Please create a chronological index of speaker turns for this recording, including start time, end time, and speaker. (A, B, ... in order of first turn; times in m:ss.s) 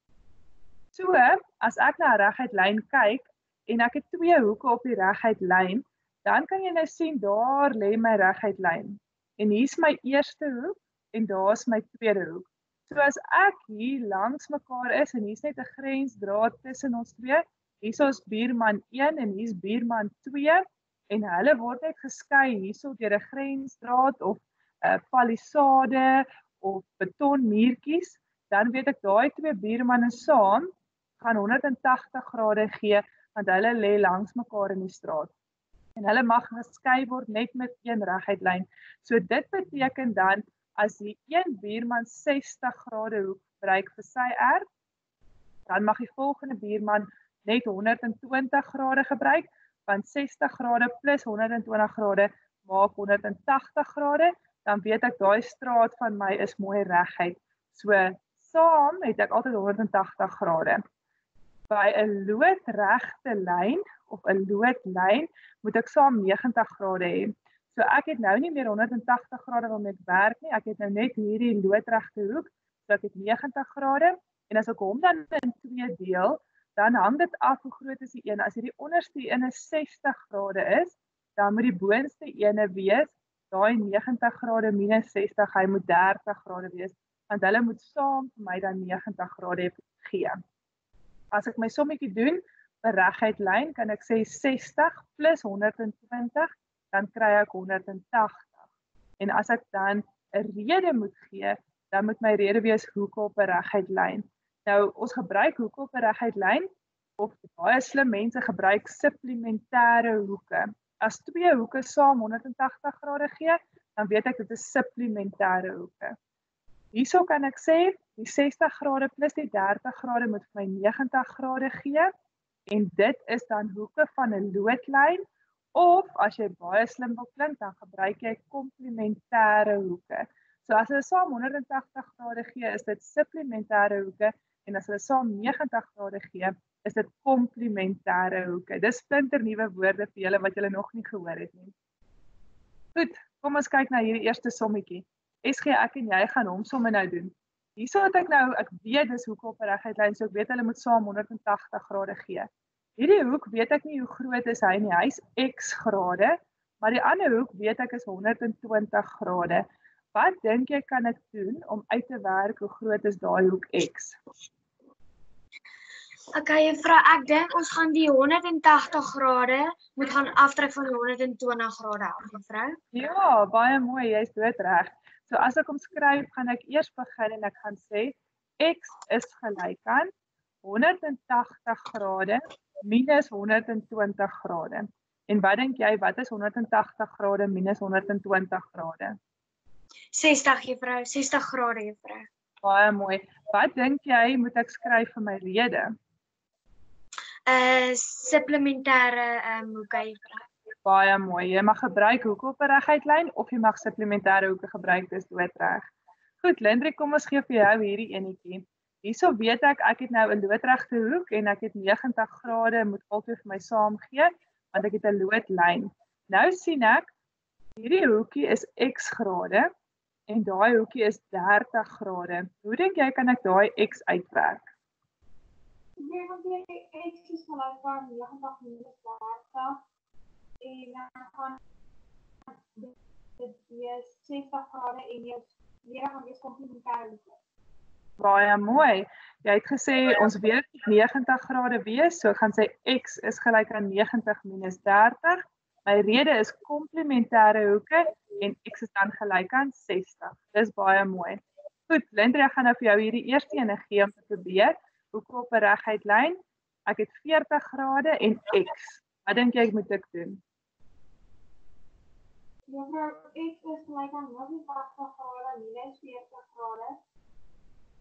0:00.9-0:35.3 A
0:36.0-0:44.6 A
0:45.7-1:00.8 A
1:01.7-1:30.4 A
1:31.3-1:38.6 A
1:39.2-1:46.7 A
1:47.2-1:56.1 A
1:56.9-2:02.1 A
2:02.7-2:05.2 A
2:05.7-2:21.7 A
2:22.9-2:44.2 A
2:46.3-2:52.8 B
2:52.9-3:00.1 A
3:00.6-3:09.2 A
3:10.1-3:12.3 B
3:12.6-3:15.9 A
3:17.5-3:20.4 B
3:20.8-3:25.8 A
3:26.4-3:37.1 A
3:37.8-3:39.7 A
3:40.3-3:44.7 A
3:46.0-3:49.8 C
3:50.6-3:51.6 C
3:52.7-3:57.2 C
3:58.2-4:20.4 A
4:22.7-4:27.0 C